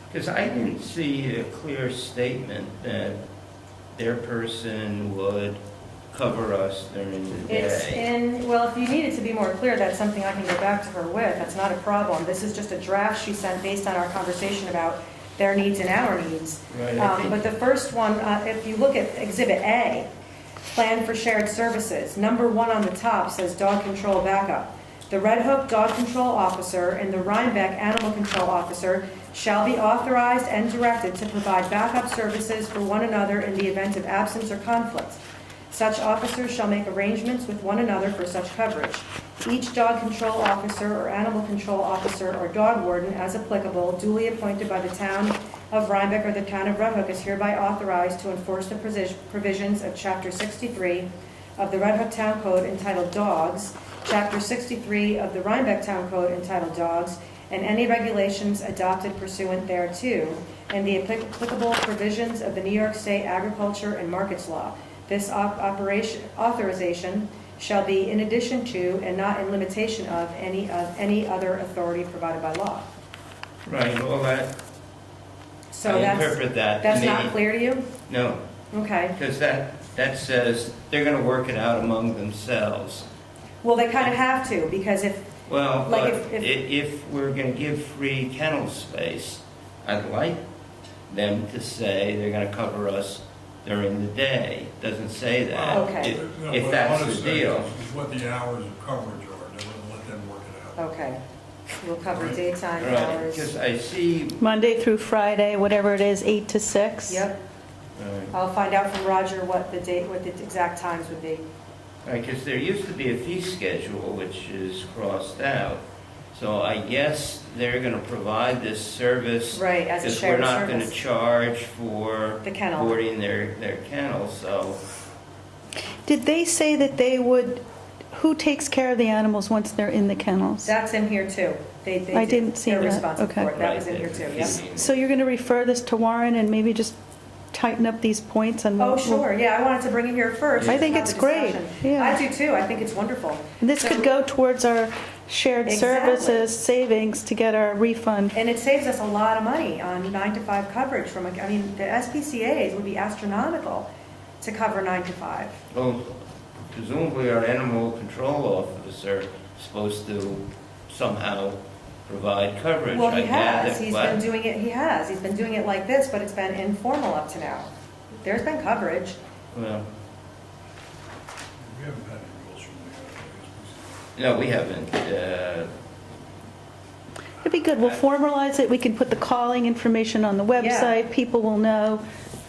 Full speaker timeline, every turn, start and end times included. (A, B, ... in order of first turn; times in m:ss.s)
0:00.1-0:03.2 A
0:04.0-0:05.6 A
0:06.1-0:08.0 A
0:07.5-0:20.1 B
0:16.7-0:17.4 A
0:20.7-1:12.9 B
1:13.6-1:14.5 A
1:15.7-1:17.9 B
1:15.8-1:17.4 A
1:18.1-1:18.4 A
1:18.7-1:19.2 B
1:19.1-1:23.0 A
1:23.6-1:25.3 B
1:25.5-1:30.4 A
1:25.8-1:26.5 B
1:31.1-1:37.7 A
1:35.5-1:40.9 C
1:35.7-1:36.2 B
1:40.8-1:41.2 B
1:41.8-1:43.5 B
1:42.1-1:42.4 C
1:42.8-1:44.4 A
1:44.4-1:47.2 D
1:47.1-1:47.4 B
1:48.0-1:48.3 A
1:48.3-1:51.4 B
1:52.0-2:04.8 A
1:59.5-2:00.9 B
2:02.4-2:03.0 B
2:06.0-2:10.7 D
2:10.6-2:14.6 B
2:12.1-2:13.5 D
2:13.5-2:14.9 A
2:14.7-2:17.0 D
2:17.5-2:19.2 D
2:18.8-2:24.1 B
2:20.6-2:22.2 D
2:23.6-2:28.4 D
2:25.6-2:26.4 B
2:28.3-2:33.9 B
2:34.4-2:35.6 B
2:35.7-2:36.2 A
2:36.7-2:44.2 A
2:42.9-2:49.2 B
2:49.5-2:49.9 A
2:51.6-2:54.0 C
2:54.2-2:55.7 A
2:57.4-3:02.0 D
3:00.5-3:00.9 B